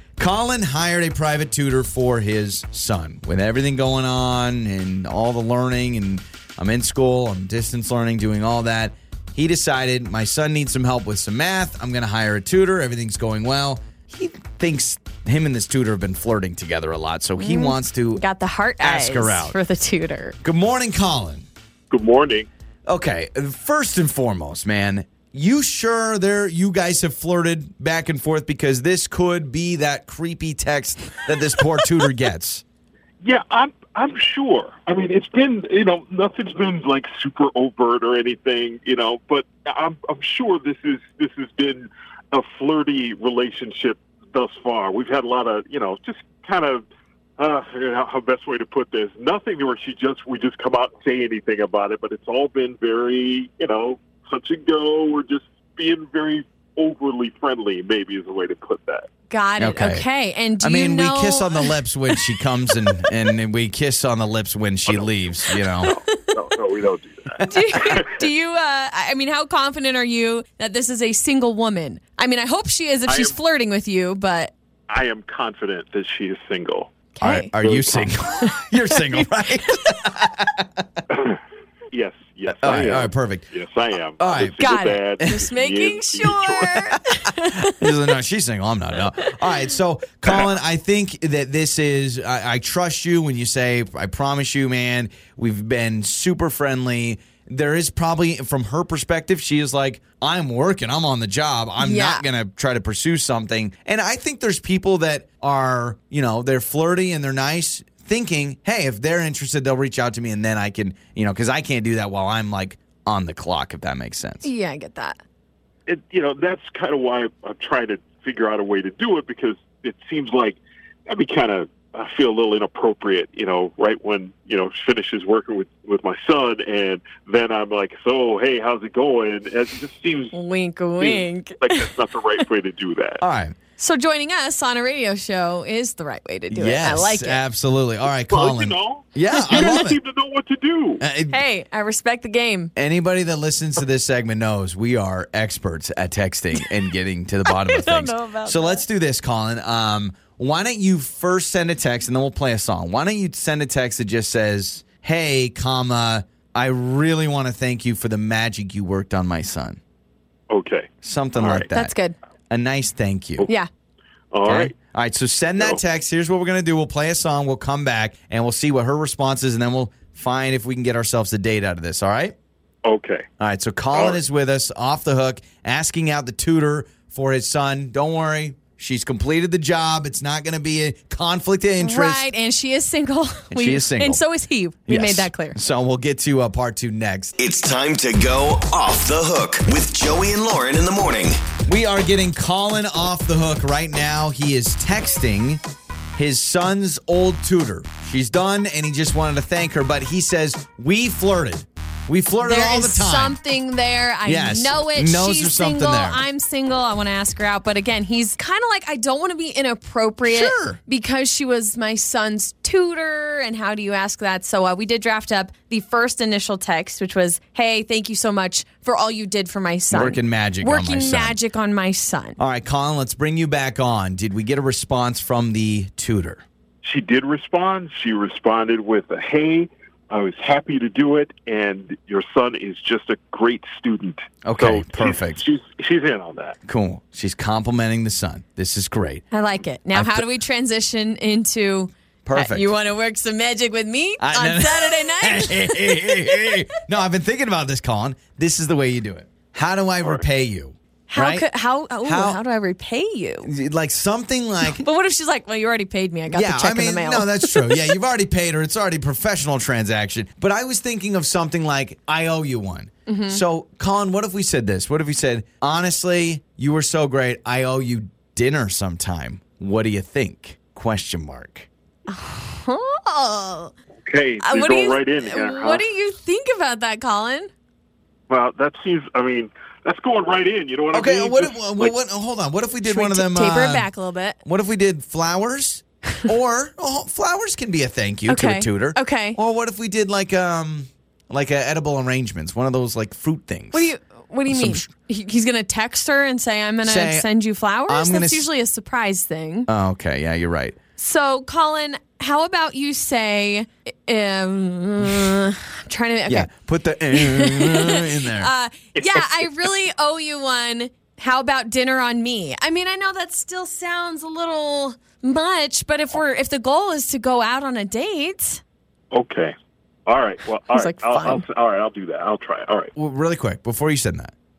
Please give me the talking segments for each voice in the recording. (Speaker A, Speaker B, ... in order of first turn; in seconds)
Speaker A: 0.2-18.2, 18.8-19.6, 20.4-21.5, 22.9-32.6, 59.6-60.0, 60.6-65.9, 67.4-67.8, 77.2-80.8, 82.6-83.5, 84.2-85.5, 86.7-87.0, 87.6-114.5, 133.2-133.5, 136.5-140.0, 141.0-141.4, 142.8-159.8, 161.0-161.9, 162.5-163.5, 164.4-172.3, 173.4-182.3, 183.5-184.2, 184.8-187.3, 191.7-195.6, 196.2-203.4, 204.2-206.2, 210.3-210.8, 219.9-221.4, 222.4-226.4, 234.4-235.4, 236.6-239.2, 239.9-240.3, 242.2-242.7, 244.2-251.5, 252.0-252.4, 253.4-254.8, 256.3-271.7, 280.9-283.9, 284.4-293.9, 294.5-294.9, 296.8-297.3, 297.9-298.4, 299.7-300.8, 306.3-308.5, 322.9-324.3
Speaker B: 17.4-20.4, 59.3-61.7, 65.8-66.1, 67.4-74.5, 77.1-77.5, 78.4-80.0, 84.6-87.9, 101.8-102.2, 114.4-115.2, 130.3-131.9, 133.8-137.4, 139.4-139.8, 141.3-142.7, 147.5-148.8, 161.7-162.2, 181.8-185.6, 202.4-222.4, 239.3-246.6, 251.1-253.5, 254.6-257.8, 263.1-263.4, 272.1-273.7, 274.4-277.5, 282.8-284.4, 288.3-289.4, 293.7-299.7, 301.0-306.5, 307.1-318.6, 320.7-321.4
Speaker C: 21.9-22.5, 33.2-46.9, 47.4-59.1, 64.9-65.1, 65.8-68.2, 73.1-73.4, 74.9-76.9, 77.6-78.1, 81.1-81.4, 81.9-86.8, 115.9-130.3, 131.0-133.2, 138.3-141.0, 160.5-161.7, 164.3-164.7, 172.8-173.2, 173.9-174.2, 226.8-236.6, 274.0-275.8, 278.3-281.9, 308.9-309.5, 319.1-319.5, 320.1-322.9
Speaker D: 187.4-191.4